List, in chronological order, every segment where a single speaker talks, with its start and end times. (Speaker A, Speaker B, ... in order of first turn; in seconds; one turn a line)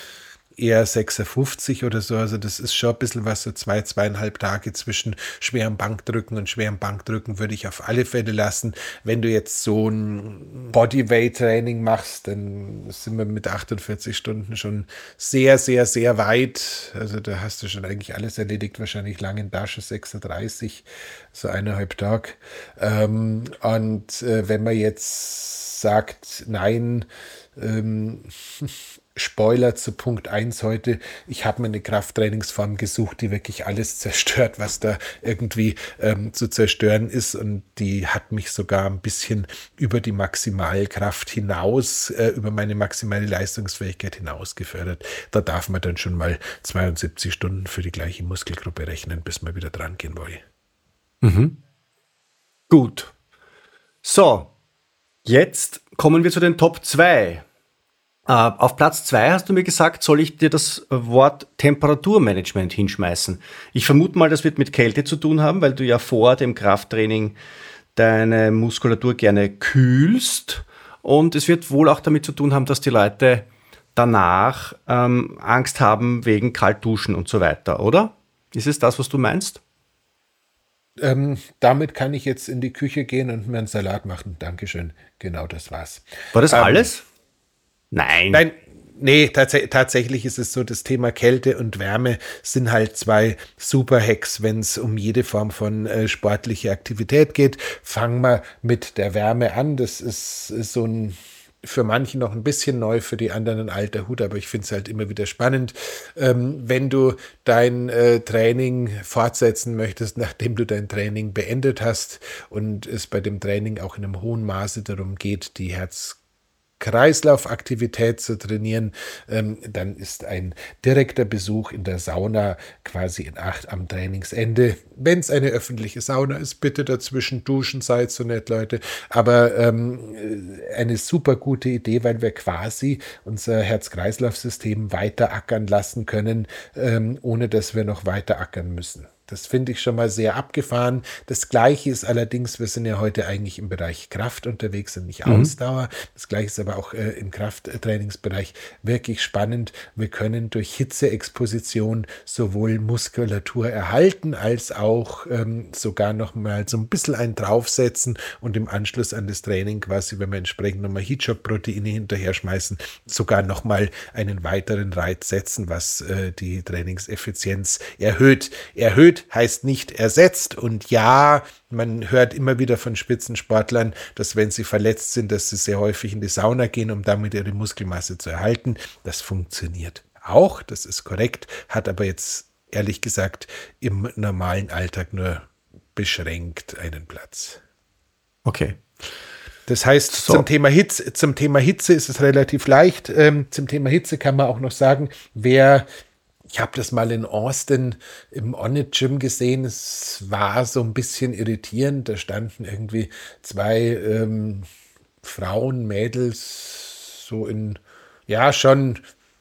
Speaker A: 0.6-50.4
Speaker B: 51.2-51.5
Speaker B: 52.7-53.1
Speaker B: 54.0-54.5
Speaker B: 55.2-57.4
Speaker B: 58.2-67.3
Speaker B: 67.9-79.6
Speaker A: 81.0-86.9
Speaker B: 86.3-87.0
Speaker B: 87.9-88.4
Speaker A: 88.3-116.2
Speaker A: 116.8-187.6
Speaker B: 145.2-145.5
Speaker B: 188.4-188.8
Speaker A: 189.7-195.8
Speaker B: 190.1-190.4
Speaker A: 196.5-204.7
Speaker A: 205.2-209.0